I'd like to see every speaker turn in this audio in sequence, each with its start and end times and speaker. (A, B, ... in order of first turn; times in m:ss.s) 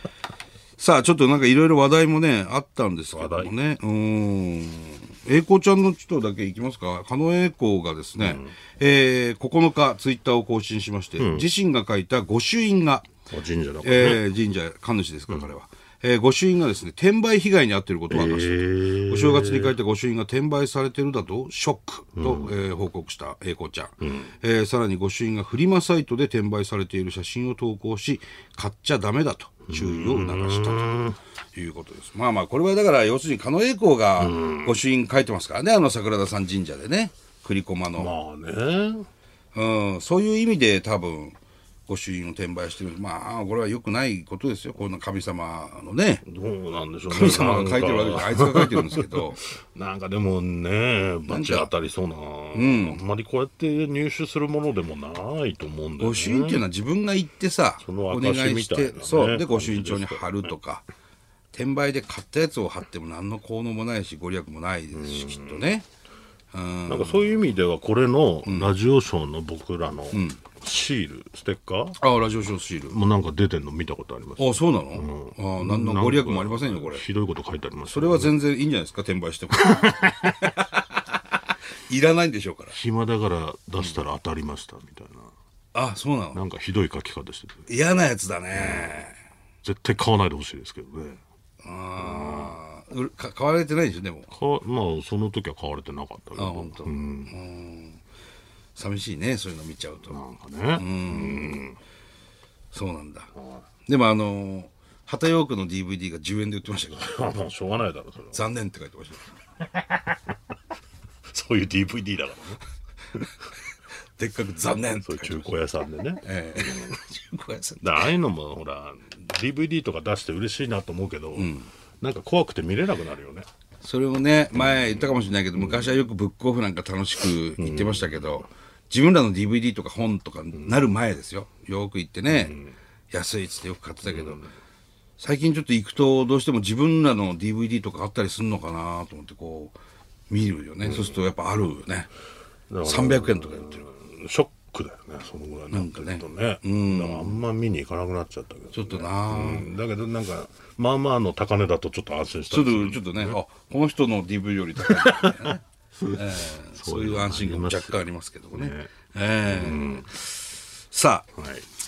0:00.8-0:13.1 A
0:03.1-0:03.5 B
0:08.2-0:08.5 B
0:11.2-0:11.5 B
0:13.3-0:14.2 B
0:13.8-0:38.1 A
0:18.1-0:19.8 B
0:22.2-0:22.5 B
0:29.7-0:31.2 B
0:34.2-0:34.8 B
0:38.0-0:39.1 B
0:39.5-0:41.4 A
0:41.9-0:46.2 A
0:46.2-0:56.6 B
0:47.1-0:49.4 A
0:51.3-0:51.7 A
0:52.5-0:53.0 A
0:56.0-1:00.8 A
0:57.8-1:00.5 B
1:01.5-1:05.9 A
1:04.9-1:05.7 B
1:06.5-1:07.4 A
1:06.9-1:12.0 B
1:08.5-1:08.7 A
1:10.1-1:10.4 A
1:12.0-1:13.0 A
1:12.9-1:18.4 B
1:14.4-1:17.0 A
1:17.9-1:20.7 A
1:19.6-1:20.5 B
1:21.9-1:22.8 A
1:22.7-1:25.3 B
1:25.7-1:26.4 A
1:26.3-1:27.7 B
1:27.7-1:29.2 A
1:28.6-1:29.0 B
1:29.6-1:31.2 B
1:31.6-1:34.3 A
1:32.0-1:32.6 B
1:34.3-1:37.3 B
1:36.4-1:38.0 A
1:38.8-1:40.2 A
1:40.1-1:41.8 B
1:40.8-1:41.6 A
1:42.7-1:43.3 A
1:43.9-1:47.2 A
1:46.9-1:48.4 B
1:48.3-1:49.3 A
1:51.3-1:52.6 B
1:54.2-1:55.6 A
1:54.7-1:57.0 B
1:56.2-1:58.1 A
1:57.8-2:03.5 B
2:01.4-2:01.7 A
2:03.8-2:12.6 A
2:04.6-2:06.0 B
2:07.6-2:08.4 B
2:12.3-2:12.7 B
2:13.1-2:14.5 A
2:14.1-2:14.5 B
2:15.2-2:19.7 A
2:20.3-2:22.1 A
2:20.8-2:21.2 B
2:22.7-2:33.4 B
2:22.8-2:23.9 A
2:25.7-2:27.4 A
2:28.7-2:29.8 A
2:32.5-2:41.3 A
2:34.8-2:38.9 B
2:39.5-2:40.1 B
2:41.4-2:41.7 B